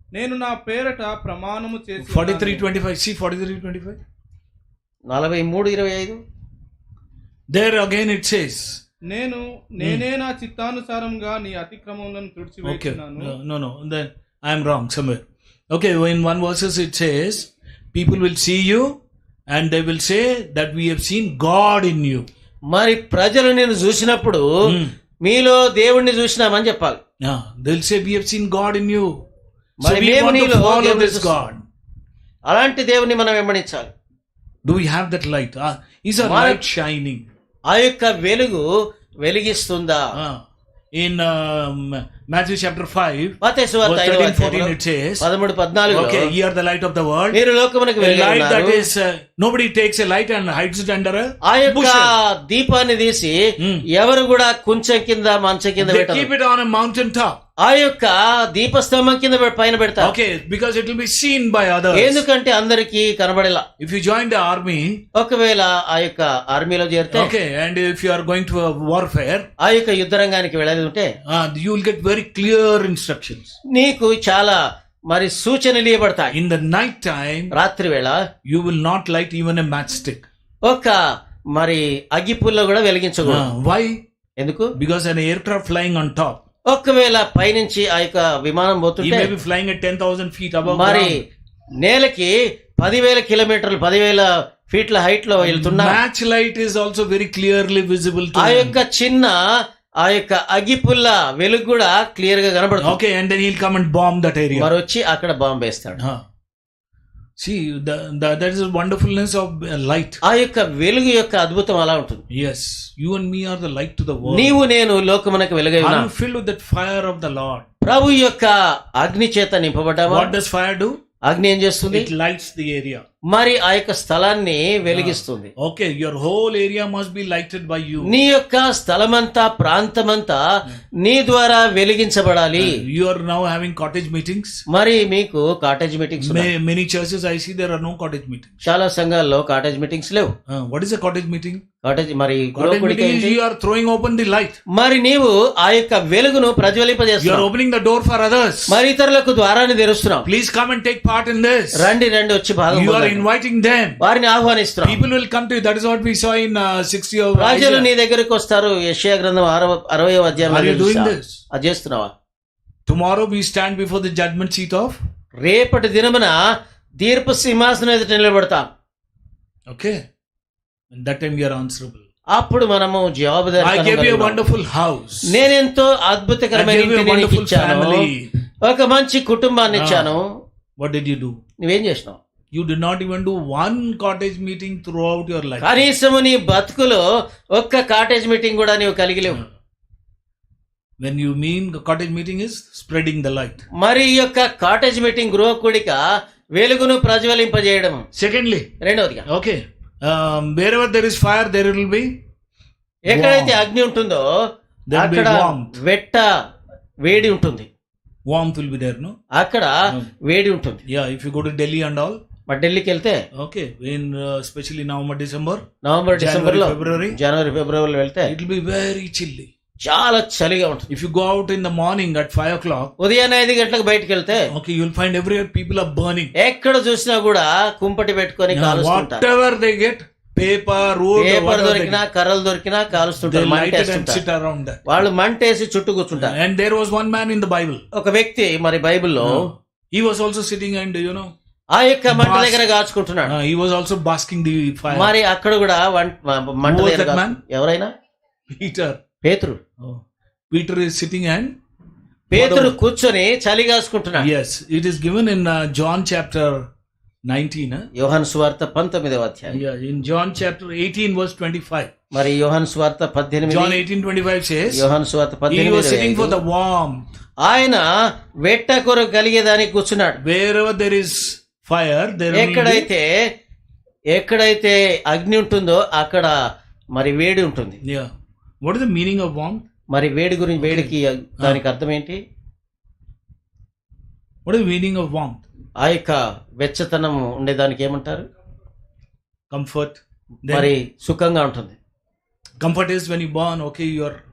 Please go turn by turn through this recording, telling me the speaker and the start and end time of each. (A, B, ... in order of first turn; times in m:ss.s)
0:00.1-0:02.7 A
0:02.0-0:04.0 B
0:05.1-0:06.2 C
0:07.5-0:08.8 B
0:09.1-0:13.3 A
0:09.8-0:10.0 B
0:12.6-0:19.0 B
0:19.5-0:22.3 B
0:22.7-0:24.4 C
0:24.6-0:24.9 B
0:25.2-0:27.0 C
0:27.2-0:29.1 B
0:29.8-0:31.4 C
0:29.8-0:31.6 B
0:32.5-0:33.9 C
0:34.6-0:37.2 B
0:36.2-0:36.6 C
0:37.7-0:38.7 C
0:39.2-0:40.0 C
0:40.2-0:40.4 B
0:41.0-0:45.3 B
0:43.4-0:46.3 C
0:45.9-0:47.4 B
0:47.3-0:48.8 C
0:48.0-0:52.1 B
0:51.4-0:53.4 C
0:53.6-0:53.8 B
0:53.9-0:56.3 C
0:55.8-0:57.4 B
0:57.6-1:00.1 C
1:00.0-1:02.2 B
1:01.9-1:03.6 C
1:03.8-1:05.0 B
1:05.2-1:07.3 C
1:07.1-1:09.5 B
1:09.6-1:11.1 C
1:11.3-1:13.6 B
1:13.7-1:14.6 C
1:15.1-1:16.4 C
1:16.3-1:17.5 B
1:17.5-1:18.2 C
1:18.5-1:20.2 B
1:20.6-1:21.0 C
1:21.5-1:23.4 C
1:23.2-1:24.0 B
1:24.4-1:24.7 C
1:24.8-1:26.4 B
1:26.7-1:29.3 C
1:29.0-1:31.2 B
1:30.7-1:31.2 C
1:31.8-1:36.0 C
1:35.4-1:38.8 B
1:38.4-1:39.4 C
1:40.0-1:43.0 C
1:42.8-1:44.7 B
1:44.5-1:46.0 C
1:47.4-1:50.2 B
1:50.2-1:52.2 C
1:52.3-1:54.6 B
1:54.3-1:56.1 C
1:55.8-1:57.7 B
1:57.8-2:00.3 C
2:00.1-2:01.0 B
2:01.3-2:02.1 C
2:01.9-2:03.0 B
2:03.3-2:05.5 C
2:04.9-2:08.1 B
2:08.0-2:10.4 C
2:11.0-2:12.8 C
2:12.5-2:14.6 B
2:14.7-2:16.5 C
2:16.2-2:18.6 B
2:18.6-2:20.3 C
2:20.5-2:21.6 B
2:21.8-2:23.4 C
2:22.6-2:24.6 B
2:24.7-2:27.5 C
2:27.2-2:28.8 B
2:28.7-2:30.3 C
2:30.2-2:31.9 B
2:31.8-2:33.2 C
2:32.7-2:34.0 B
2:34.0-2:35.0 C
2:34.8-2:37.9 B
2:37.4-2:42.1 C
2:40.4-2:41.4 B
2:42.9-2:45.0 B
2:45.4-2:46.4 C
2:47.0-2:48.6 C
2:49.7-2:50.0 B
2:50.9-2:52.0 B
2:52.3-2:54.4 C
2:53.6-2:55.4 B
2:55.3-2:58.0 C
2:56.5-2:58.3 B
2:58.6-3:00.3 C
2:59.7-3:00.1 B
3:00.8-3:01.4 B
3:01.6-3:02.2 C
3:02.5-3:05.8 B
3:05.6-3:07.0 C
3:07.6-3:09.4 C
3:11.0-3:13.7 B
3:13.8-3:16.0 C
3:16.6-3:18.0 C
3:18.2-3:18.7 B
3:18.8-3:19.3 C
3:19.3-3:22.2 B
3:23.1-3:24.2 C
3:23.1-3:23.6 B
3:24.9-3:25.7 B
3:24.9-3:26.3 C
3:27.0-3:27.7 C
3:28.3-3:29.2 B
3:29.4-3:29.8 C
3:30.3-3:30.8 C
3:30.9-3:32.2 B
3:32.5-3:33.2 C
3:33.4-3:37.2 B
3:35.8-3:38.3 C
3:38.3-3:39.5 B
3:39.8-3:40.9 C
3:40.9-3:42.9 B
3:43.0-3:44.5 C
3:44.5-3:46.3 B
3:46.4-3:49.2 C
3:48.5-3:52.0 B
3:51.2-3:54.2 C
3:53.2-3:55.0 B
3:54.9-3:56.3 C
3:56.2-3:57.8 B
3:57.9-3:59.5 C
3:59.2-4:01.3 B
4:01.7-4:03.3 C
4:02.1-4:02.6 B
4:03.3-4:05.1 B
4:04.9-4:07.9 C
4:06.6-4:07.4 B
4:08.5-4:09.0 B
4:09.2-4:09.6 C
4:09.8-4:11.5 B
4:12.3-4:14.3 C
4:12.3-4:12.8 B
4:14.2-4:16.6 B
4:17.3-4:17.9 B
4:18.0-4:19.6 C
4:19.5-4:21.9 B
4:22.1-4:23.8 C
4:23.5-4:24.9 B
4:24.7-4:26.4 C
4:25.5-4:27.0 B
4:27.4-4:27.8 C
4:28.5-4:30.2 C
4:30.2-4:32.9 B
4:32.3-4:33.1 C
4:34.1-4:36.3 C
4:37.0-4:37.8 C
4:37.8-4:38.1 B
4:38.6-4:39.6 B
4:39.9-4:42.2 C
4:40.6-4:41.6 B
4:44.4-4:45.4 B
4:45.8-4:48.2 C
4:49.5-4:50.7 B
4:50.5-4:51.8 C
4:52.6-4:54.2 B